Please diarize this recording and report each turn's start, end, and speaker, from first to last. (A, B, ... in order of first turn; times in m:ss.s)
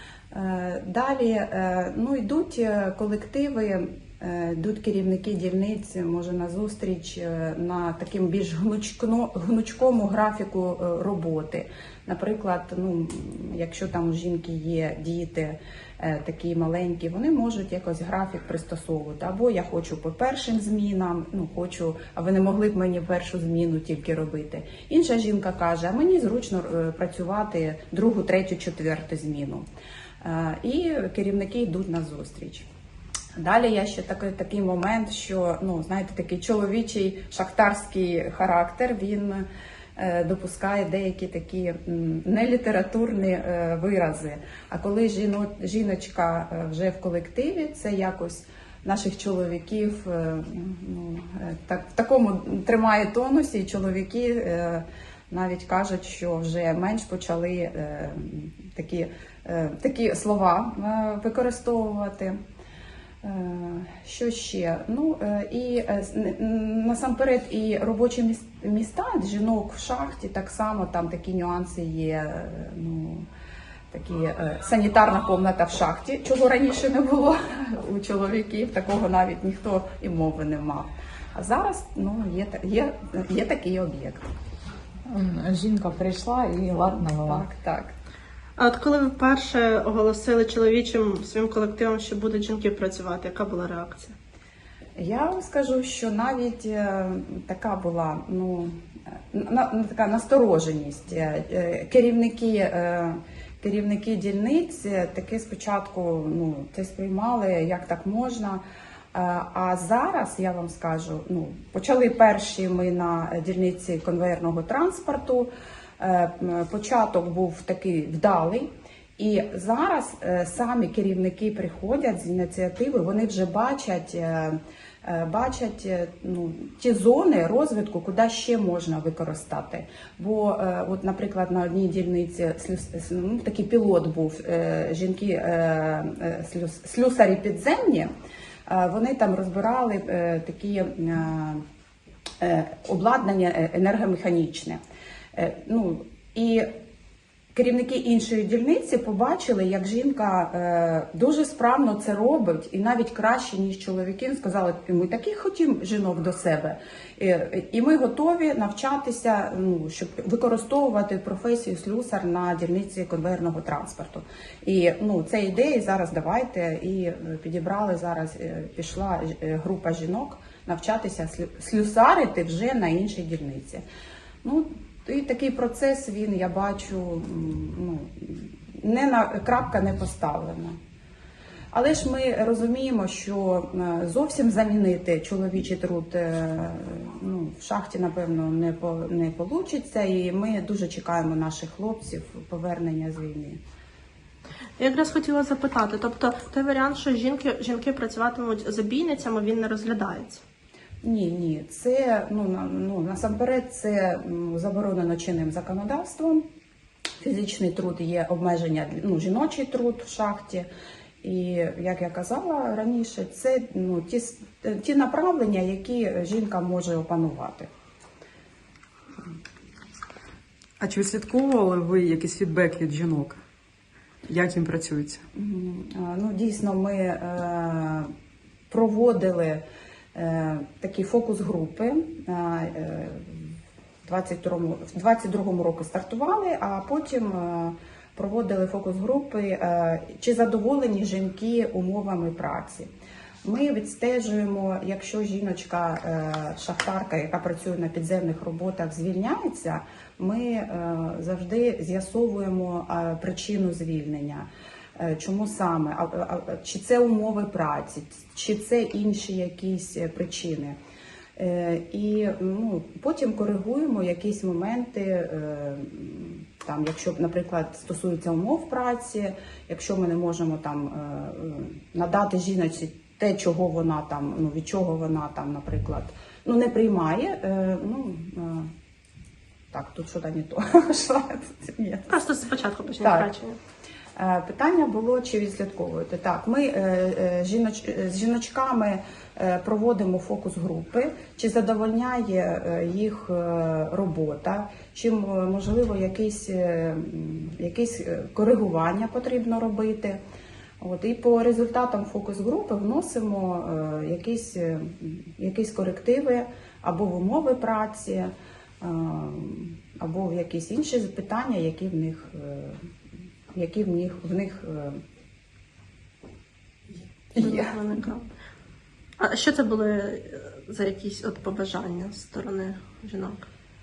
0:00.3-0:29.6 A
0:30.2-0:32.6 A
0:33.4-1:02.4 A
1:03.2-1:13.3 A
1:13.9-1:24.3 A
1:25.1-1:27.4 B
1:27.2-1:27.9 A
1:28.6-1:34.1 C
1:35.0-1:38.8 A
1:39.3-1:48.6 A
1:49.1-2:18.1 A
2:18.7-2:21.6 A
2:22.4-2:24.8 A
2:25.3-2:26.7 A
2:27.5-2:53.8 A
2:54.4-3:00.8 A
3:01.7-3:13.6 A
3:14.8-3:20.4 C
3:21.0-3:26.4 A
3:27.2-3:30.7 A
3:31.2-3:37.7 A
3:40.8-3:43.4 D
3:44.3-3:45.2 D
3:45.3-3:48.1 A
3:48.7-3:49.6 A
3:50.1-4:02.9 A
4:03.4-4:20.8 A
4:21.4-4:38.7 A
4:39.7-4:42.2 A
4:42.1-4:43.5 C
4:43.0-4:43.3 A
4:44.2-5:00.2 A
5:00.8-5:12.8 A
5:13.5-5:15.0 A
5:17.3-5:17.8 A
5:17.4-5:18.3 C
5:19.2-5:23.4 C